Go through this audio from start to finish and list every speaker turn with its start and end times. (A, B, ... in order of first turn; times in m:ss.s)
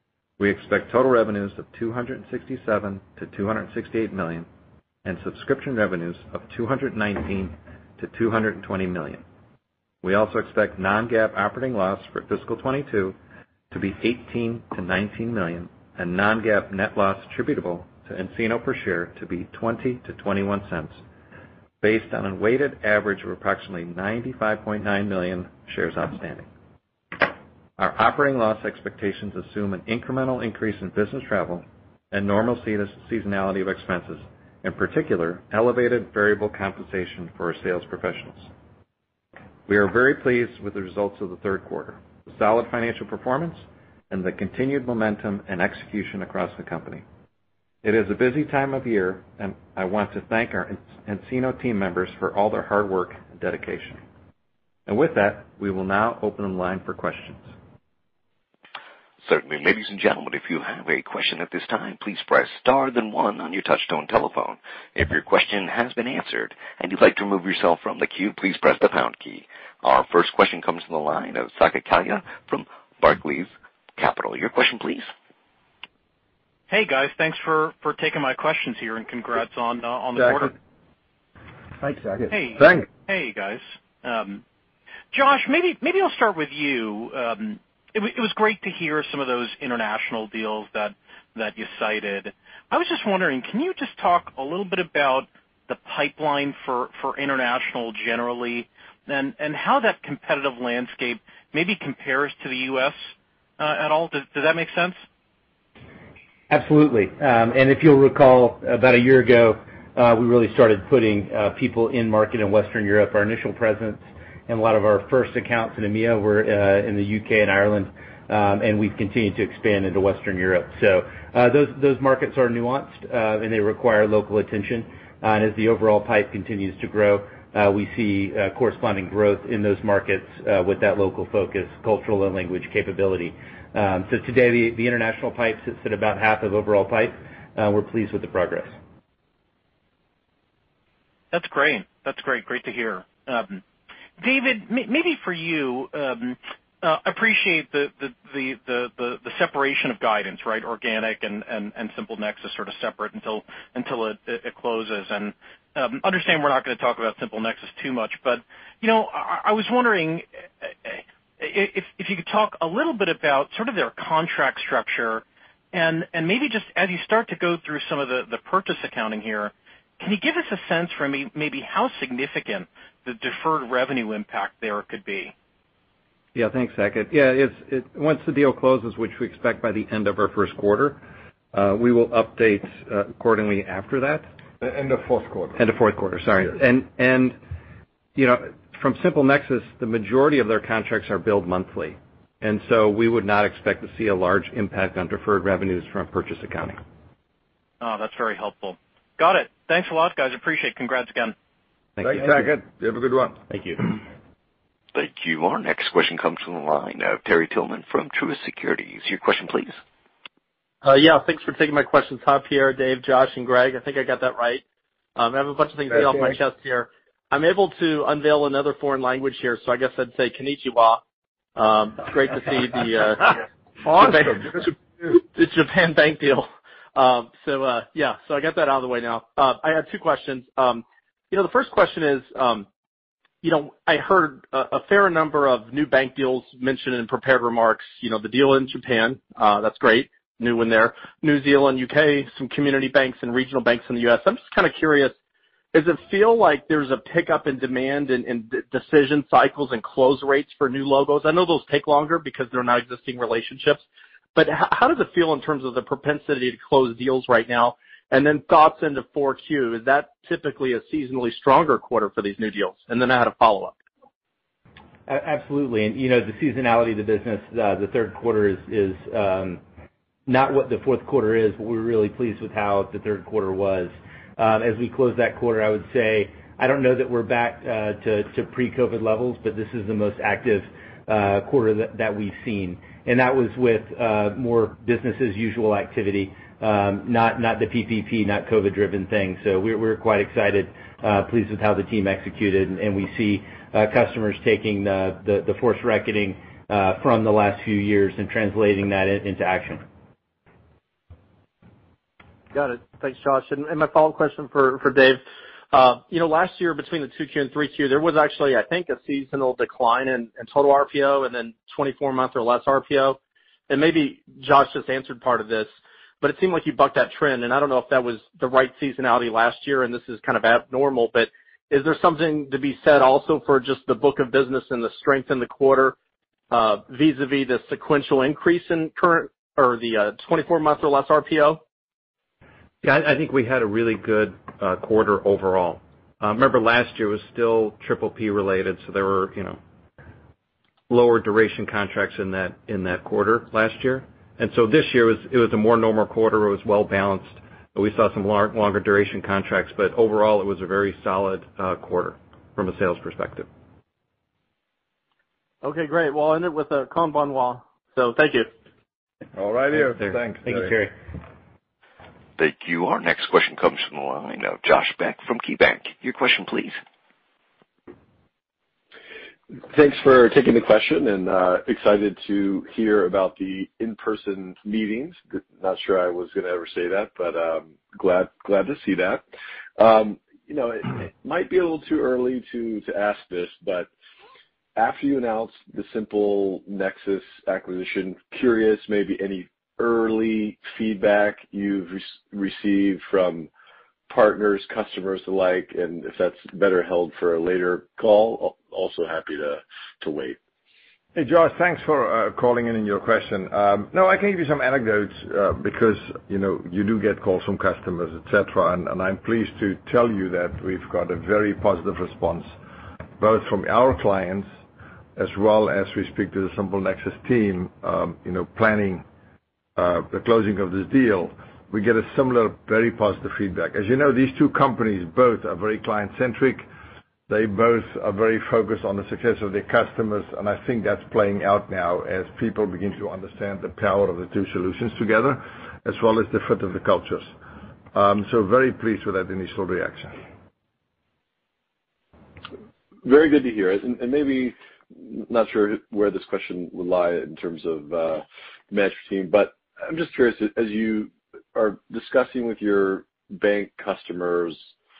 0:00.4-0:04.5 A
0:05.0-0:09.2 A
0:10.0-0:13.2 A
0:13.7-0:21.0 A
0:21.8-0:26.4 A
0:27.8-0:38.5 A
0:39.7-0:47.0 A
0:47.8-0:54.0 A
0:54.9-0:57.5 A
0:59.2-1:15.1 B
1:16.7-1:20.5 C
1:21.8-1:22.8 D
1:22.3-1:24.4 C
1:25.1-1:45.0 C
1:46.5-2:18.8 E
2:21.3-2:23.6 C
2:24.2-2:55.3 C
2:56.3-3:01.0 A
3:01.5-3:04.3 A
3:04.6-3:05.6 D
3:05.6-3:07.4 A
3:08.2-3:16.8 A
3:17.8-3:21.3 C
3:22.0-3:22.3 E
3:22.0-3:23.4 D
3:23.5-3:23.8 E
3:24.9-3:29.8 B
3:30.8-3:34.6 F
3:35.2-3:41.0 F
3:41.6-3:43.2 F
3:43.8-3:44.5 D
3:44.0-3:52.6 F
3:53.4-4:05.1 F
4:05.7-4:13.8 F
4:14.4-4:23.7 F
4:25.1-4:29.6 E
4:30.3-4:59.8 E
5:02.5-5:05.2 F
5:05.7-5:13.2 F
5:13.7-5:26.0 F
5:26.5-5:31.6 F
5:32.8-5:39.6 A
5:40.9-5:53.5 A
5:55.6-5:58.5 F
5:59.4-6:00.8 D
6:00.4-6:00.9 E
6:02.4-6:06.8 B
6:09.7-6:19.2 G
6:19.8-6:23.9 G
6:24.8-6:33.5 G
6:34.1-6:40.4 G
6:41.1-6:52.5 D
6:53.2-6:54.5 D
6:55.2-6:59.0 D
6:59.8-7:06.6 D
7:07.3-7:17.3 D
7:17.9-7:20.1 D
7:23.0-7:34.7 G